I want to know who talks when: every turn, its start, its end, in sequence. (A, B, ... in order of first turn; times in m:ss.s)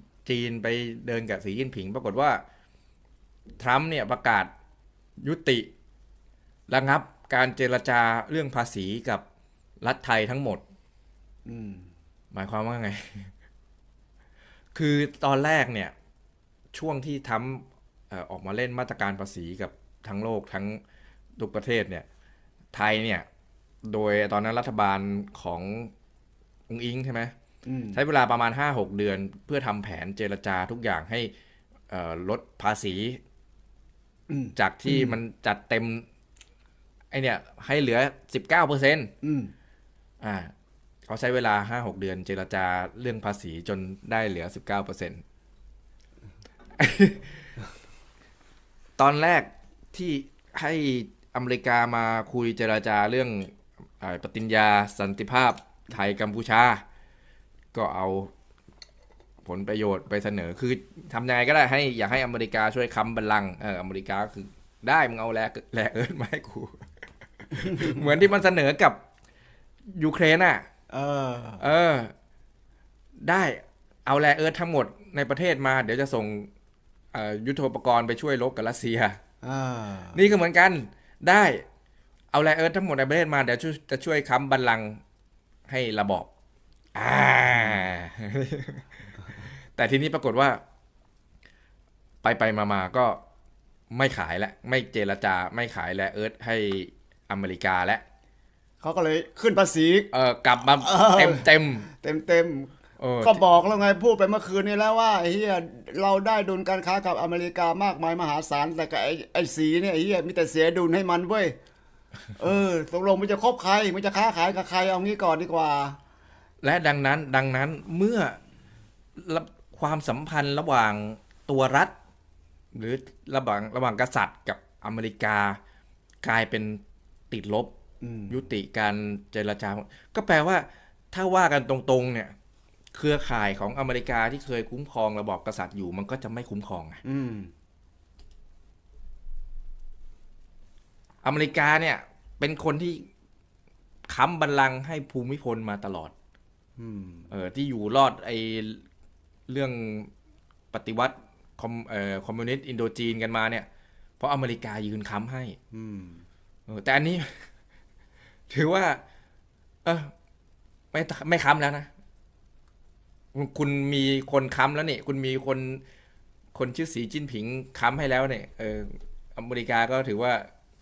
0:00.2-0:02.4 A
0:03.6-0:04.5 A
0:05.2-0:05.7 A
0:06.7-0:09.2 A
0:09.8-0:10.6 A
0:11.5-0:11.9 B
0:12.3-0:13.3 A
0:14.8-0:15.9 A
0:16.7-0:20.8 A
0:21.4-0:22.1 A
0:22.7-0:23.3 A
0:23.8-0:25.9 A
0:26.7-0:27.3 A
0:27.7-0:28.0 B
0:27.9-0:31.3 A
0:31.9-0:33.2 A
0:34.3-0:35.2 B
0:34.6-0:36.0 A
0:37.1-0:39.1 A
0:39.2-0:39.5 B
0:40.2-0:40.5 A
0:41.1-0:45.2 A
0:46.8-0:47.5 A
0:49.0-0:56.8 A
0:57.7-0:58.3 A
0:59.4-1:06.8 A
1:07.4-1:09.0 A
1:09.9-1:10.7 A
1:10.9-1:11.6 B
1:11.6-1:12.1 A
1:13.2-1:16.5 A
1:17.1-1:19.2 A
1:19.4-1:20.2 B
1:20.1-1:21.6 A
1:22.3-1:25.0 A
1:25.7-1:26.3 A
1:27.0-1:30.6 A
1:32.2-1:33.2 A
1:33.9-1:38.0 A
1:38.8-1:40.1 B
1:40.1-1:41.9 A
1:40.6-1:51.6 B
1:43.0-1:43.4 A
1:52.4-1:56.0 B
1:56.6-1:58.4 A
1:59.2-2:01.9 A
2:02.7-2:05.6 A
2:06.2-2:07.7 A
2:08.0-2:08.4 B
2:08.3-2:12.3 A
2:12.9-2:17.0 A
2:17.0-2:17.5 B
2:21.2-2:23.1 A
2:24.1-2:26.1 A
2:26.8-2:27.3 B
2:27.3-2:28.8 A
2:29.5-2:30.1 A
2:30.7-2:33.7 A
2:34.2-2:35.6 A
2:35.7-2:36.2 B
2:36.7-2:37.3 A
2:38.5-2:39.0 A
2:39.8-2:40.1 A
2:40.9-2:41.9 A
2:43.3-2:45.8 A
2:46.6-2:50.5 A